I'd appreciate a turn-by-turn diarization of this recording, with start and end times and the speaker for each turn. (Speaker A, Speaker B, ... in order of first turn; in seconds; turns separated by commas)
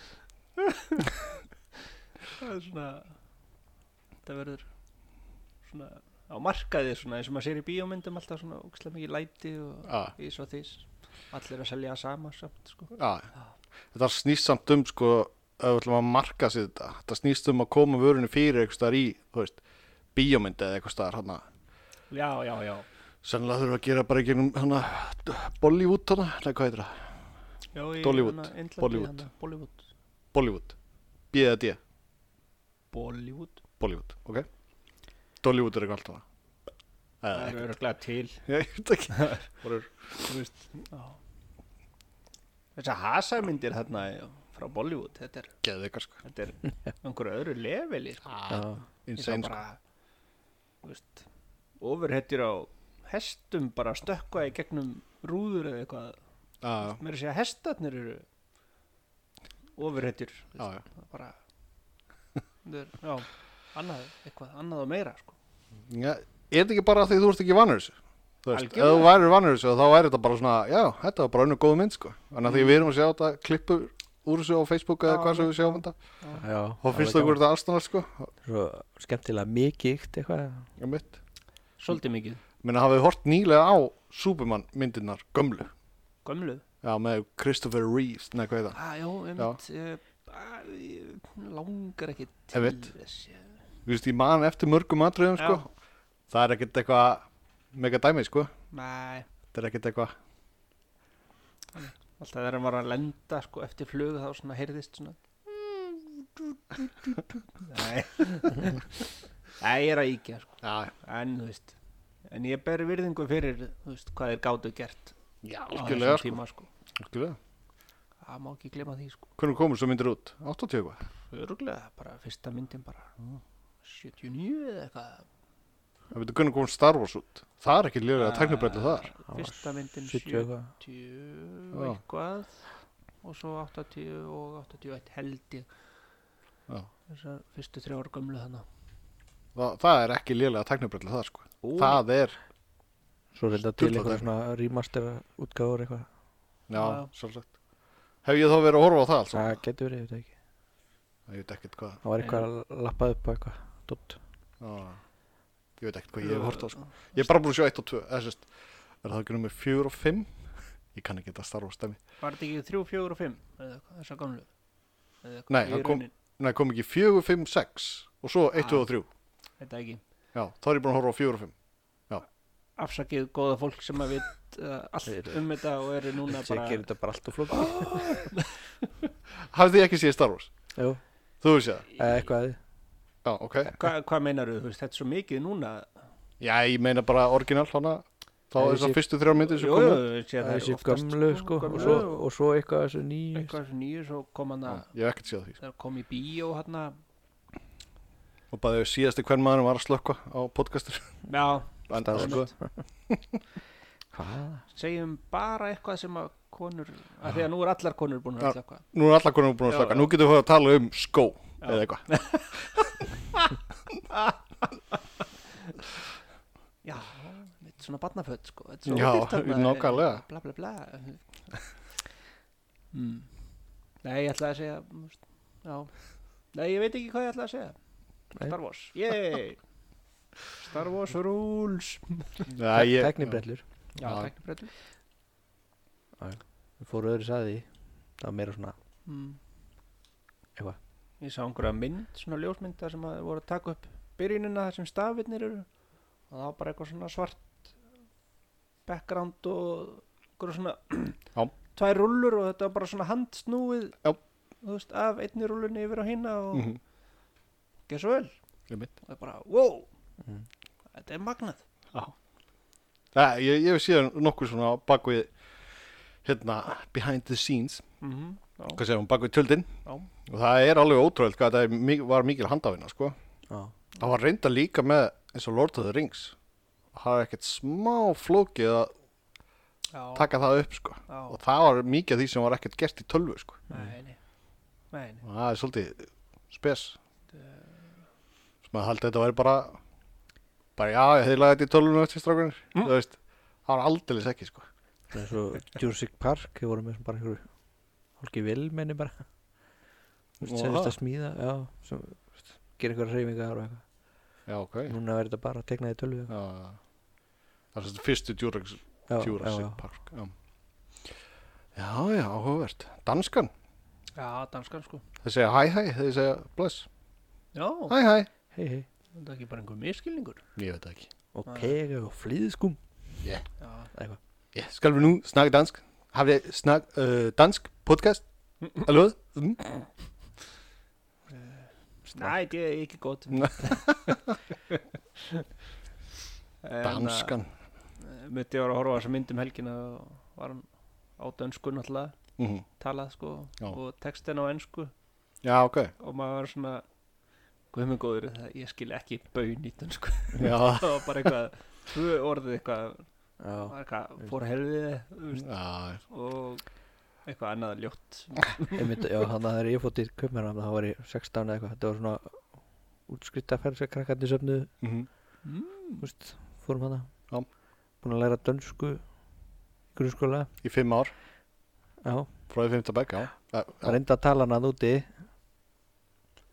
Speaker A: 0.6-1.2, Speaker A: 2.4-3.1, Speaker A: 4.2-4.7, Speaker A: 5.7-13.5, Speaker B: 9.9-10.1, Speaker B: 12.9-13.3, Speaker B: 13.9-19.6, Speaker B: 20.1-21.4, Speaker A: 22.1-22.9, Speaker B: 23.2-27.1, Speaker A: 27.7-29.9, Speaker B: 28.0-29.2, Speaker B: 30.3-30.8, Speaker B: 31.3-31.8, Speaker A: 32.9-33.6, Speaker B: 33.8-34.5, Speaker B: 35.4-36.2, Speaker B: 37.2-37.6, Speaker A: 37.3-38.4, Speaker B: 38.5-40.2, Speaker A: 39.1-39.5, Speaker A: 40.2-41.2, Speaker A: 42.8-45.6, Speaker B: 45.6-46.2, Speaker A: 46.2-48.4, Speaker B: 48.3-49.6, Speaker C: 48.5-48.8, Speaker A: 49.2-49.8, Speaker A: 50.8-51.3, Speaker A: 51.8-56.2, Speaker B: 56.6-57.0, Speaker A: 56.8-58.3, Speaker A: 59.8-61.4, Speaker A: 62.6-65.4, Speaker B: 65.9-76.0, Speaker A: 68.5-69.1, Speaker A: 72.5-72.8, Speaker A: 75.0-76.4, Speaker C: 76.4-77.4, Speaker B: 76.8-78.3, Speaker C: 78.4-80.7, Speaker B: 80.8-81.2, Speaker A: 81.8-82.4, Speaker B: 82.6-85.7, Speaker A: 86.2-86.6, Speaker B: 86.8-88.8, Speaker A: 88.7-93.6, Speaker B: 92.5-92.9, Speaker B: 93.9-95.7, Speaker A: 95.4-95.6, Speaker B: 96.3-98.5, Speaker A: 98.7-99.3, Speaker B: 99.5-100.1, Speaker A: 101.8-111.8, Speaker B: 110.6-110.9, Speaker A: 112.3-115.1, Speaker B: 115.4-116.4, Speaker A: 115.7-116.7, Speaker B: 117.0-117.4, Speaker A: 118.2-119.3, Speaker B: 119.4-121.0, Speaker A: 121.3-123.1, Speaker A: 123.8-125.3, Speaker B: 126.1-129.1, Speaker A: 128.2-132.6, Speaker C: 129.3-130.7, Speaker B: 131.7-132.0, Speaker A: 133.2-135.7, Speaker A: 137.1-138.7, Speaker B: 139.6-142.4, Speaker A: 141.6-142.0, Speaker C: 143.3-146.1, Speaker B: 143.8-144.2, Speaker B: 146.7-147.5, Speaker A: 146.7-147.1, Speaker B: 148.2-149.6, Speaker C: 149.3-150.3, Speaker B: 151.3-152.0, Speaker C: 152.0-154.2, Speaker A: 152.2-152.5, Speaker B: 154.6-155.0, Speaker B: 155.8-158.5, Speaker A: 156.2-157.3, Speaker B: 159.0-160.3, Speaker B: 160.9-162.0, Speaker A: 162.2-164.5, Speaker A: 165.2-166.1, Speaker B: 165.5-169.1, Speaker A: 168.6-168.9, Speaker A: 169.6-170.0, Speaker B: 170.3-171.6, Speaker A: 172.8-176.8, Speaker C: 175.1-175.4, Speaker C: 176.3-178.2, Speaker A: 177.5-178.9, Speaker B: 179.5-180.5, Speaker C: 180.8-181.0, Speaker B: 181.4-181.9, Speaker C: 182.0-182.6, Speaker B: 183.2-183.8, Speaker A: 183.7-185.9, Speaker B: 186.4-190.1, Speaker C: 188.6-189.0, Speaker A: 189.3-192.2, Speaker C: 190.4-193.6, Speaker A: 193.3-194.9, Speaker B: 194.7-195.6, Speaker A: 195.6-197.0, Speaker B: 198.5-201.3, Speaker A: 201.3-202.5, Speaker B: 201.9-202.5, Speaker C: 201.9-202.7, Speaker B: 203.1-203.4, Speaker C: 204.1-204.6, Speaker A: 204.7-208.8, Speaker B: 208.4-212.1, Speaker A: 209.7-210.1, Speaker A: 211.6-213.6, Speaker A: 214.1-214.7, Speaker A: 216.8-221.2, Speaker B: 218.9-220.2, Speaker A: 222.9-223.3, Speaker A: 224.0-225.9, Speaker A: 226.5-227.8, Speaker A: 228.4-229.6, Speaker A: 230.6-232.5, Speaker B: 232.5-233.4, Speaker C: 232.7-233.6, Speaker A: 234.0-234.7, Speaker B: 234.0-234.3, Speaker C: 236.2-237.7, Speaker C: 238.2-238.8, Speaker A: 239.1-239.4, Speaker A: 241.2-245.7, Speaker A: 246.3-247.7, Speaker A: 248.9-254.0, Speaker A: 254.6-256.7, Speaker B: 256.5-256.8, Speaker A: 257.9-258.4, Speaker A: 259.0-259.9, Speaker A: 260.9-261.6, Speaker B: 263.1-265.3, Speaker B: 266.2-267.9, Speaker A: 268.0-268.8, Speaker B: 268.8-269.7, Speaker B: 270.3-273.2, Speaker B: 274.0-276.4, Speaker B: 276.9-278.9, Speaker A: 279.9-280.3, Speaker B: 280.1-283.6, Speaker A: 281.1-281.4, Speaker A: 283.7-284.2, Speaker A: 284.9-285.2, Speaker B: 285.2-287.0, Speaker A: 287.3-287.9, Speaker B: 288.6-289.8, Speaker B: 290.8-294.7, Speaker C: 295.1-297.5, Speaker C: 298.2-299.2, Speaker C: 300.4-303.8, Speaker B: 300.4-301.0, Speaker B: 304.5-305.0, Speaker C: 304.9-306.3, Speaker B: 306.3-306.8, Speaker B: 307.7-310.3, Speaker C: 309.1-309.8, Speaker B: 311.8-313.5, Speaker A: 314.2-315.0, Speaker B: 315.2-316.9, Speaker A: 317.5-318.0, Speaker B: 317.9-318.3, Speaker C: 318.5-318.9, Speaker A: 319.1-320.4, Speaker B: 320.6-321.1, Speaker C: 321.3-322.8, Speaker A: 321.5-321.7, Speaker A: 323.6-323.9, Speaker B: 324.5-329.8, Speaker A: 331.3-334.1, Speaker B: 333.4-334.3, Speaker A: 335.2-335.5, Speaker A: 336.6-337.4, Speaker B: 336.8-337.5, Speaker A: 338.0-342.2, Speaker B: 342.4-342.6, Speaker A: 342.8-344.9, Speaker B: 345.4-345.9, Speaker A: 346.0-346.8, Speaker A: 347.7-353.1, Speaker B: 350.4-351.1, Speaker C: 353.4-353.8, Speaker A: 353.6-355.5, Speaker B: 355.4-356.0, Speaker A: 356.1-356.6, Speaker A: 357.3-358.8, Speaker C: 358.7-362.5, Speaker C: 363.1-364.7, Speaker B: 364.8-365.1, Speaker A: 365.4-366.1, Speaker C: 366.0-367.1, Speaker C: 368.0-369.1, Speaker C: 369.9-370.5, Speaker B: 370.6-371.1, Speaker C: 372.0-372.3, Speaker B: 372.5-374.0, Speaker C: 373.8-375.1